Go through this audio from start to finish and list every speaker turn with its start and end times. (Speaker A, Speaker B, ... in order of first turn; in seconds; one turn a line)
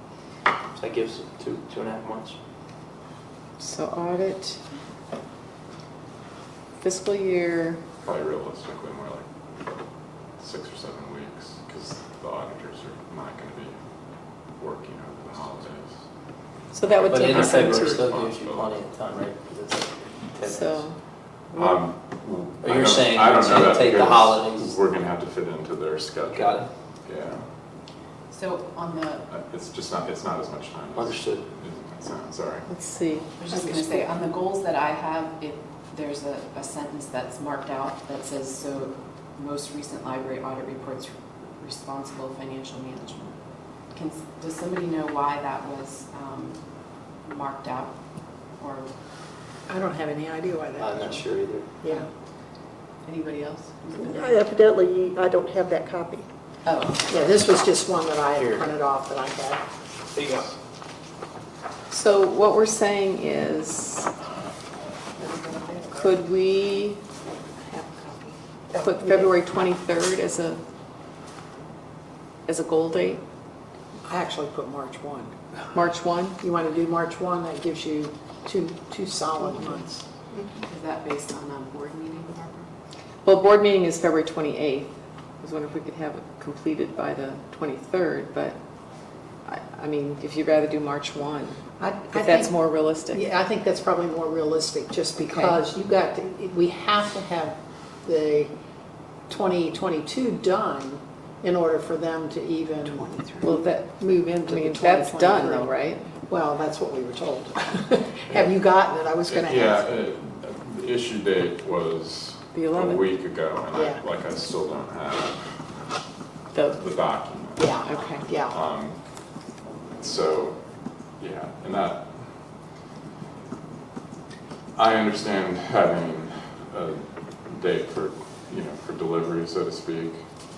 Speaker A: 0.7-2.4
Speaker B: 3.6-4.6
Speaker B: 6.8-7.8
Speaker C: 8.0-9.2
Speaker C: 10.4-13.8
Speaker C: 14.6-15.9
Speaker B: 16.7-18.1
Speaker A: 17.1-20.9
Speaker C: 17.1-18.8
Speaker B: 20.4-21.0
Speaker C: 21.5-27.4
Speaker A: 22.6-24.7
Speaker A: 26.3-26.6
Speaker D: 28.3-29.2
Speaker C: 29.3-32.6
Speaker A: 30.9-31.4
Speaker B: 32.7-33.2
Speaker D: 33.4-43.4
Speaker D: 43.9-46.6
Speaker D: 47.2-47.9
Speaker D: 48.6-48.9
Speaker E: 49.7-51.2
Speaker A: 50.8-51.7
Speaker E: 51.8-52.1
Speaker D: 53.0-54.6
Speaker D: 56.6-57.1
Speaker E: 57.1-59.6
Speaker A: 58.4-58.6
Speaker A: 60.1-60.5
Speaker B: 61.9-64.1
Speaker B: 65.9-67.0
Speaker E: 67.5-69.3
Speaker B: 68.8-70.6
Speaker B: 72.5-73.2
Speaker E: 74.0-75.3
Speaker B: 75.7-76.4
Speaker E: 76.4-80.0
Speaker D: 80.7-82.7
Speaker B: 83.2-88.6
Speaker B: 89.5-91.6
Speaker E: 91.8-92.5
Speaker B: 92.1-93.2
Speaker E: 93.1-98.5
Speaker B: 95.3-95.6
Speaker E: 99.3-105.7
Speaker B: 103.4-106.1
Speaker E: 106.3-109.8
Speaker C: 109.3-115.5
Speaker B: 112.5-113.0
Speaker E: 113.7-114.0
Speaker B: 116.5-116.8
Speaker C: 116.7-117.8
Speaker E: 117.6-118.6
Speaker B: 117.8-118.2
Speaker C: 118.5-119.0
Speaker C: 120.0-120.6
Speaker C: 121.2-122.2
Speaker C: 124.8-130.2